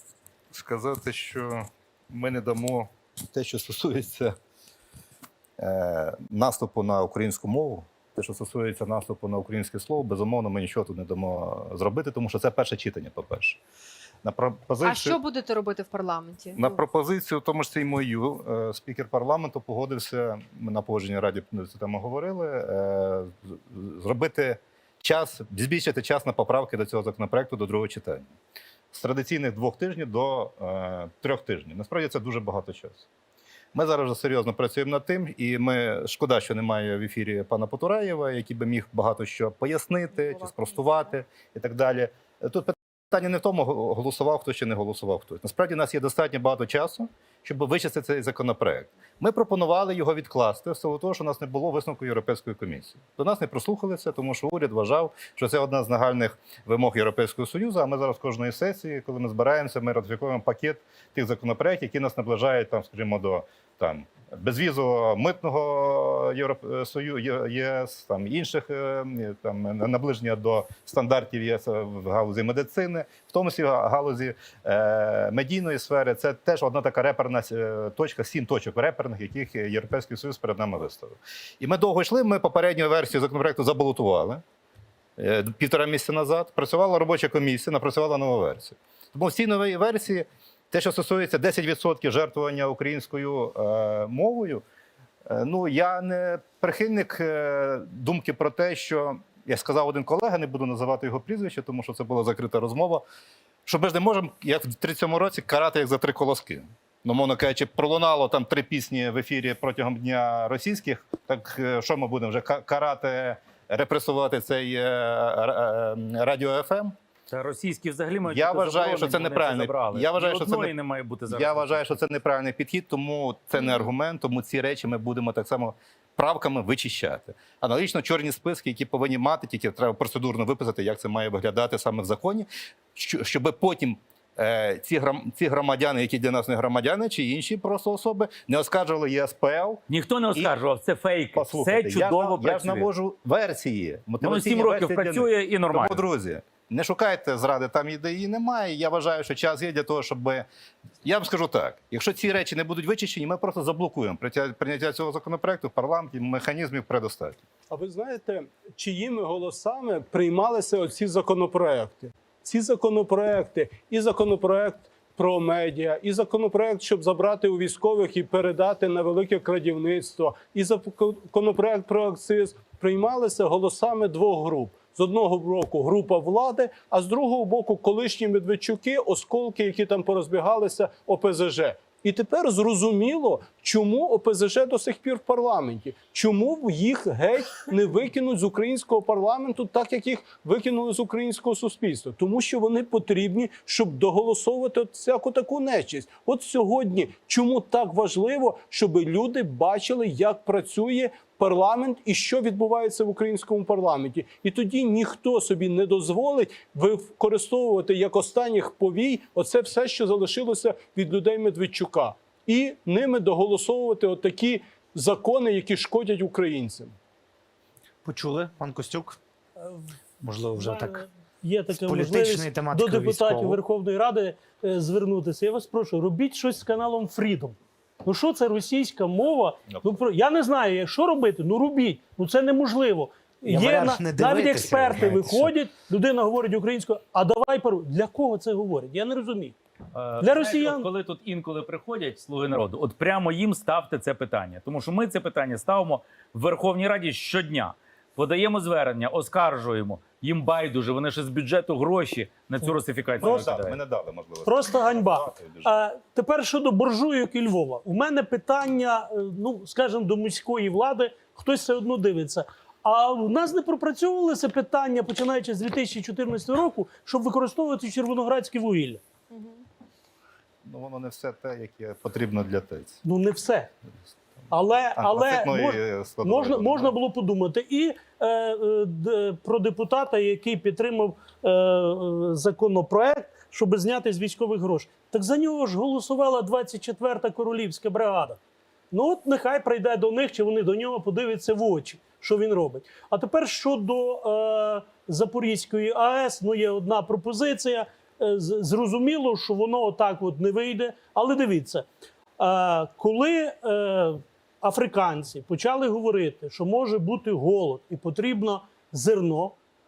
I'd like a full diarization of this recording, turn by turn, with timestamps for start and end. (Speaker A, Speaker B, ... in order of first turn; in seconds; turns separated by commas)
Speaker A: 0.5-4.3, Speaker A: 5.6-13.6, Speaker A: 14.2-15.2, Speaker B: 14.8-16.8, Speaker A: 16.6-28.3, Speaker A: 28.9-33.1, Speaker A: 33.7-84.4, Speaker B: 40.1-41.1, Speaker A: 85.2-94.6, Speaker A: 95.3-103.0, Speaker A: 103.7-116.9, Speaker C: 117.3-122.0, Speaker A: 118.2-120.7, Speaker A: 121.3-139.8, Speaker C: 139.9-142.9, Speaker A: 141.3-150.5, Speaker C: 144.2-146.0, Speaker A: 151.0-157.4, Speaker D: 157.7-217.0, Speaker E: 218.1-219.2, Speaker E: 220.2-221.1, Speaker F: 220.5-239.6, Speaker E: 221.7-223.6, Speaker E: 233.5-235.5, Speaker C: 239.9-253.8, Speaker F: 240.2-240.9, Speaker A: 253.2-255.7, Speaker F: 253.2-253.5, Speaker F: 254.4-269.0, Speaker B: 269.3-269.6, Speaker A: 270.6-273.0, Speaker F: 273.0-273.7, Speaker F: 274.5-288.4, Speaker A: 274.9-276.9, Speaker F: 288.9-301.9, Speaker F: 302.4-309.6